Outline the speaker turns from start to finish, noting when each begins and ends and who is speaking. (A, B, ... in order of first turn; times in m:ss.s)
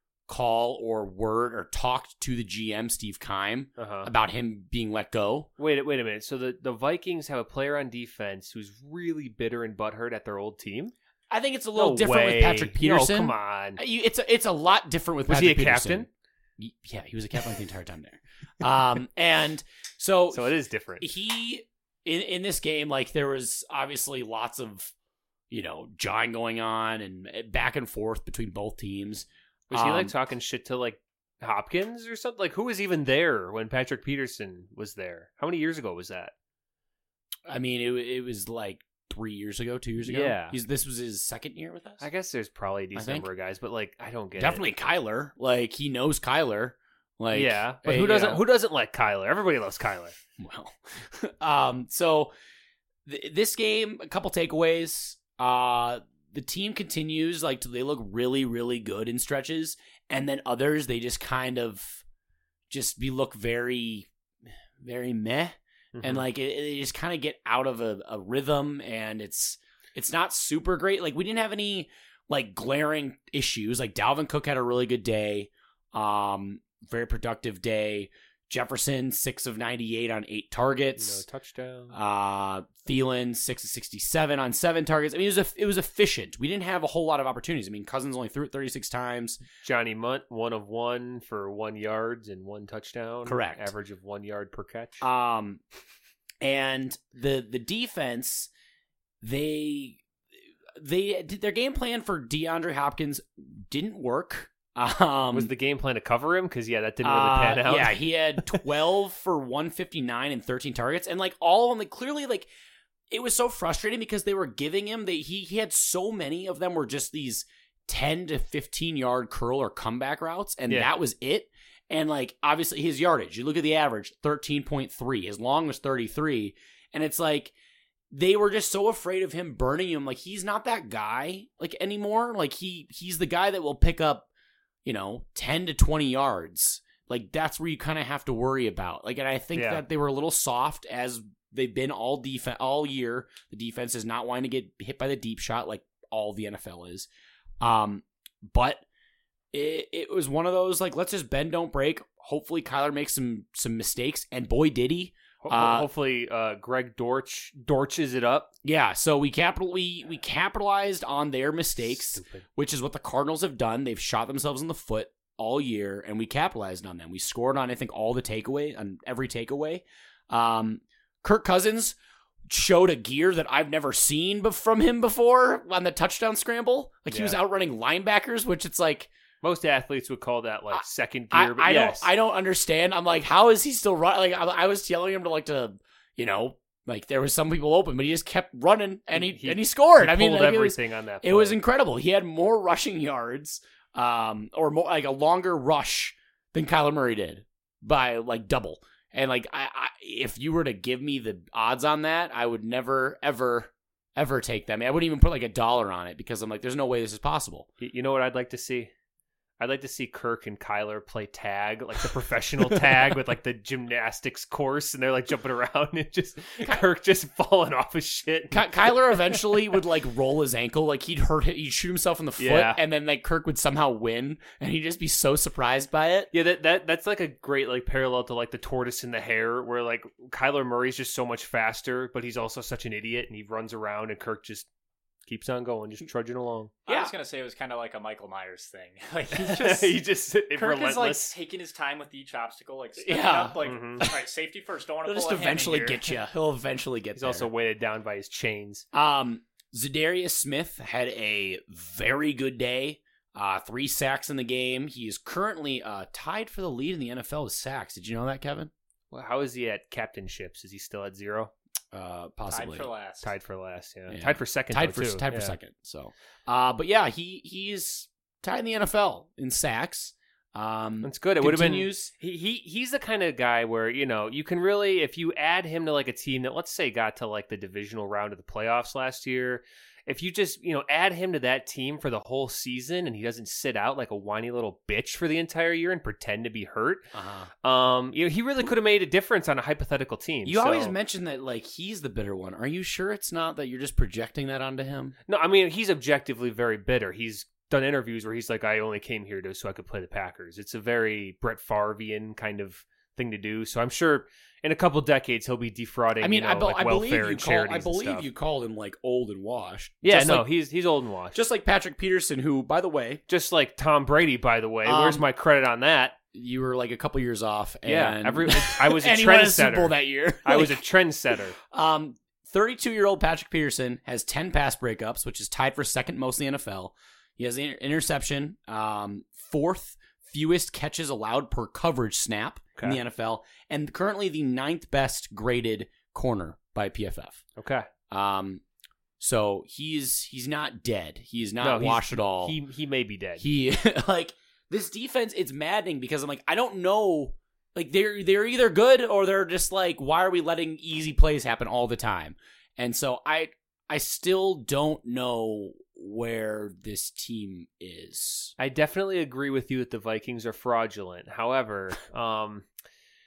0:00.3-0:05.5 A
0:03.8-0:04.1 B
0:05.6-0:10.9 B
0:11.3-0:16.1 A
0:11.8-0:13.8 B
0:15.3-0:16.1 B
0:16.6-0:20.5 A
0:20.3-0:21.1 B
0:21.0-0:24.9 A
0:25.5-0:30.2 A
0:29.7-0:36.3 B
0:37.5-0:42.1 A
0:40.0-0:40.6 B
0:42.0-0:44.6 B
0:43.0-0:43.3 A
0:44.4-0:48.4 A
0:47.3-0:50.2 B
0:50.4-0:52.3 A
0:53.1-1:02.0 A
1:02.7-1:04.1 A
1:04.8-1:21.2 A
1:06.0-1:06.2 B
1:21.0-1:21.9 B
1:21.9-1:29.4 A
1:29.6-1:35.0 B
1:33.3-1:33.7 A
1:35.0-1:35.6 A
1:36.4-1:38.5 A
1:39.2-1:40.0 A
1:40.8-1:45.5 A
1:45.3-1:48.6 B
1:47.0-1:52.5 A
1:53.1-2:07.5 A
2:08.1-2:14.3 A
2:14.8-2:27.1 A
2:19.6-2:19.8 B
2:27.6-2:28.8 A
2:29.5-2:35.9 A
2:35.4-2:38.5 B
2:38.6-2:52.0 A
2:42.0-2:42.4 B
2:52.5-2:59.1 A
2:57.1-2:57.4 B
2:59.4-3:02.1 B
3:00.7-3:27.7 A
3:09.2-3:11.6 B
3:27.8-3:28.9 B
3:29.6-3:39.4 B
3:38.5-3:46.3 A
3:42.4-3:42.8 B
3:46.3-3:54.7 B
3:55.3-3:56.7 B
3:56.9-4:00.0 C
3:56.9-3:57.1 A
3:59.3-4:01.3 B
4:00.5-4:06.2 C
4:03.0-4:04.2 A
4:03.6-4:04.1 B
4:05.1-4:07.5 A
4:07.2-4:08.9 B
4:08.9-4:18.7 A
4:19.1-4:21.5 B
4:21.9-4:22.9 A
4:22.5-4:23.3 C
4:23.2-4:25.6 B
4:24.1-4:32.1 A
4:31.0-4:47.1 B
4:47.1-4:47.5 A
4:47.6-4:51.0 B
4:50.5-4:55.2 A
4:55.3-5:08.3 B
5:06.2-5:10.5 A
5:10.0-5:11.4 B
5:11.3-5:13.2 A
5:13.3-5:16.2 B
5:14.8-5:15.2 A
5:16.3-5:20.8 A
5:17.9-5:21.6 B
5:21.6-5:37.4 A
5:37.6-5:37.9 B
5:38.1-5:38.6 A
5:39.2-5:42.6 A
5:41.6-5:43.4 B
5:43.4-5:58.5 A
5:58.6-6:02.7 B